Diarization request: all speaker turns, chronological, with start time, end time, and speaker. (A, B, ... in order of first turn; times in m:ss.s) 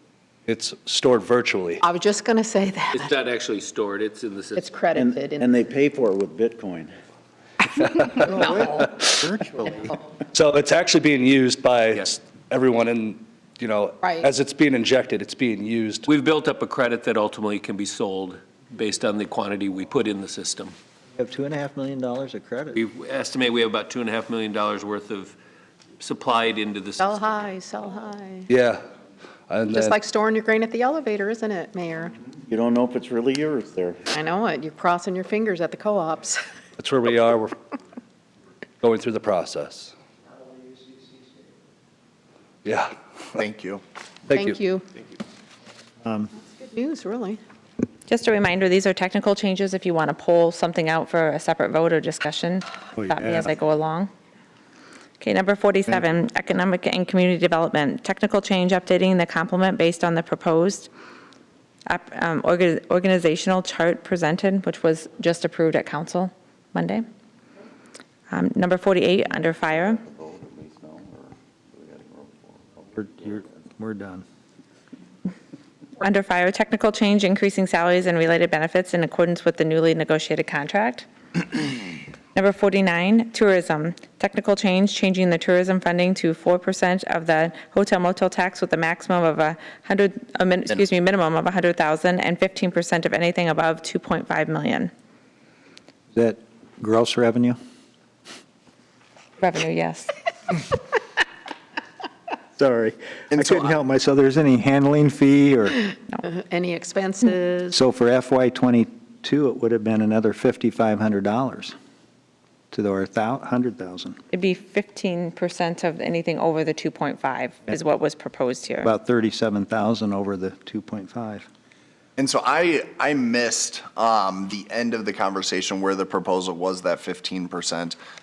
0:00.5-0:01.8 A
0:01.8-0:03.3 B
0:03.0-0:04.6 C
0:04.5-0:05.6 B
0:05.0-0:06.9 D
0:07.8-0:09.0 A
0:08.2-0:10.0 E
0:10.3-0:16.1 A
0:14.0-0:14.3 B
0:16.1-0:20.8 C
0:21.2-0:22.8 E
0:22.8-0:25.4 C
0:26.0-0:27.3 C
0:27.0-0:28.5 B
0:28.5-0:28.8 A
0:29.5-0:30.0 A
0:29.7-0:32.2 B
0:32.5-0:34.0 D
0:34.1-0:36.4 B
0:36.8-0:37.6 A
0:38.8-0:39.9 A
0:42.6-0:42.9 A
0:43.4-0:43.8 F
0:44.3-0:44.6 A
0:44.3-0:44.9 B
0:46.0-0:46.3 E
0:46.6-0:47.4 B
0:48.1-0:54.1 G
0:53.0-0:53.4 E
0:55.2-1:00.9 G
1:01.9-1:07.0 G
1:08.3-1:10.0 G
1:09.6-1:13.5 D
1:13.0-1:14.2 E
1:16.0-1:21.1 G
1:22.4-1:34.9 G
1:36.1-1:37.6 E
1:39.4-1:40.1 G
1:42.6-1:45.9 E
1:43.3-1:43.7 F
1:46.2-1:47.8 B
1:47.7-1:51.8 E
1:52.7-1:54.2 E
1:54.3-1:58.9 G
1:58.8-2:01.5 E
2:02.2-2:08.0 F